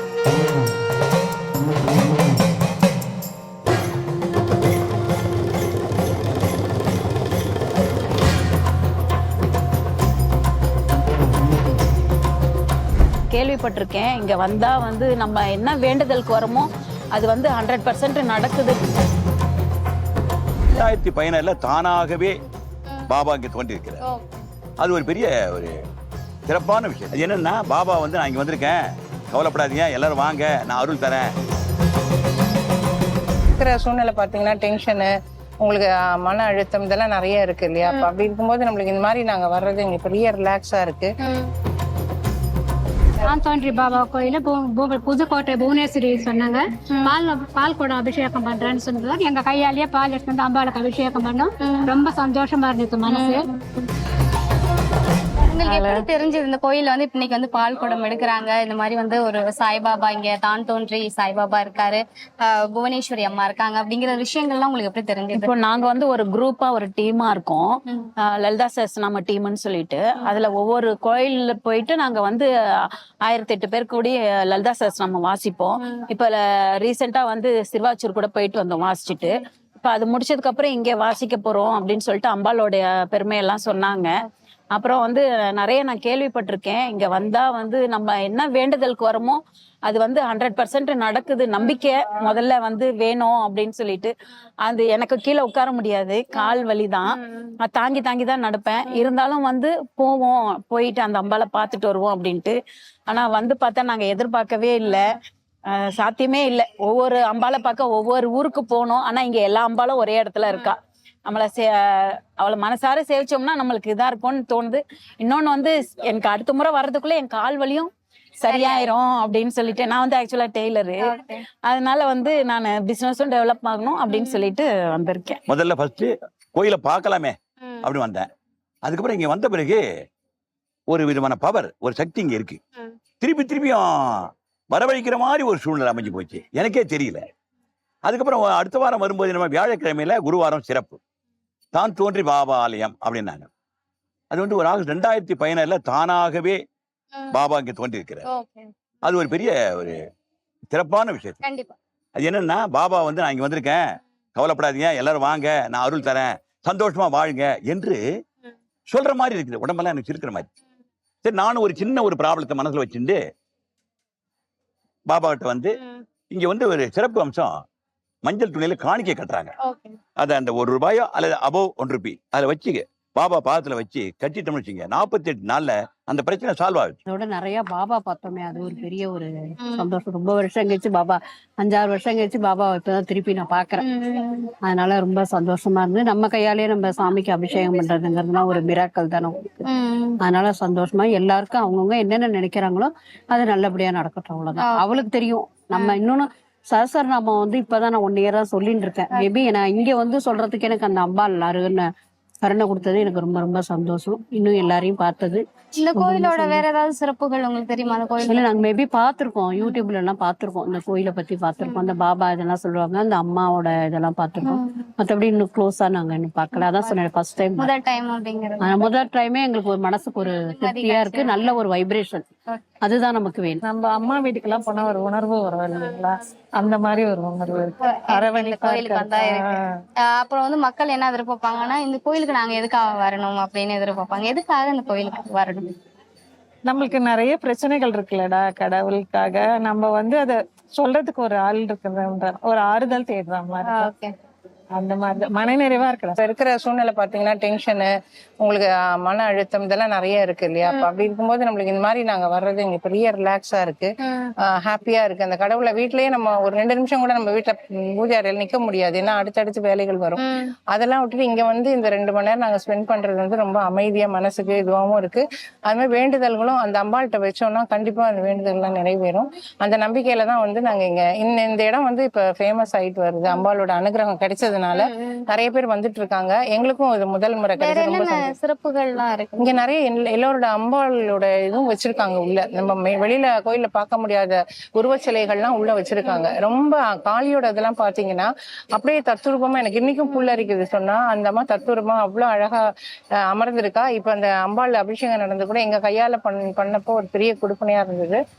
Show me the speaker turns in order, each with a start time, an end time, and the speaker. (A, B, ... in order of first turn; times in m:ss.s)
0:13.3-0:18.8 A
0:20.7-0:22.4 B
0:23.1-0:24.0 B
0:24.8-0:25.7 B
0:26.5-0:28.8 B
0:29.3-0:31.3 B
0:33.6-0:35.1 C
0:35.6-0:41.1 C
0:37.8-0:38.1 D
0:41.2-0:41.5 D
0:43.2-0:53.5 E
0:51.6-0:51.9 D
0:53.1-0:53.9 D
0:55.5-1:05.5 D
0:55.6-0:56.0 A
1:05.3-1:07.8 A
1:08.4-1:12.5 A
1:13.3-1:24.1 A
1:15.8-1:16.0 D
1:24.8-1:34.1 A
1:34.7-1:42.6 A
1:43.1-1:45.1 A
1:45.8-2:01.1 A
1:58.5-1:58.9 D
2:01.0-2:01.4 D
2:01.7-2:05.4 A
2:04.1-2:04.5 D
2:05.5-2:08.3 B
2:08.8-2:09.8 B
2:10.9-2:12.6 B
2:13.2-2:17.2 B
2:18.0-2:21.0 B
2:21.7-2:23.5 B
2:24.3-2:26.6 B
2:27.3-2:28.2 B
2:28.3-2:28.7 D
2:29.0-2:30.0 B
2:30.7-2:31.4 B
2:31.4-2:31.8 D
2:32.2-2:33.8 B
2:34.4-2:38.0 B
2:38.9-2:40.5 B
2:41.2-2:43.2 B
2:45.1-2:45.8 B
2:46.3-2:47.5 B
2:48.2-2:49.5 B
2:49.7-2:50.0 D
2:50.2-2:57.0 B
2:57.1-3:03.8 F
2:59.6-2:59.9 D
3:03.8-3:04.5 D
3:04.6-3:09.6 F
3:09.7-3:10.2 D
3:10.2-3:21.9 F
3:14.6-3:15.0 D
3:22.4-3:25.4 F
3:25.8-3:28.5 D
3:25.9-3:26.6 F
3:28.2-3:37.7 F
3:31.6-3:32.0 D
3:34.4-3:34.8 D
3:36.6-3:36.9 D
3:37.6-3:38.9 D
3:38.6-3:42.2 F
3:40.4-3:41.4 D
3:42.8-3:43.6 F
3:43.6-3:49.5 G
3:47.8-3:49.4 D
3:50.1-3:55.7 D
3:56.7-4:03.9 G
4:03.6-4:04.1 D
4:04.7-4:06.2 G
4:06.2-4:07.9 C
4:08.4-4:13.9 C
4:10.6-4:11.0 D
4:14.1-4:14.3 D
4:14.5-4:38.4 C
4:20.2-4:20.5 D
4:34.8-4:35.1 D
4:37.6-4:39.6 D
4:39.4-4:52.6 C
4:46.0-4:46.3 D
4:50.1-4:50.5 D
4:53.3-4:58.2 C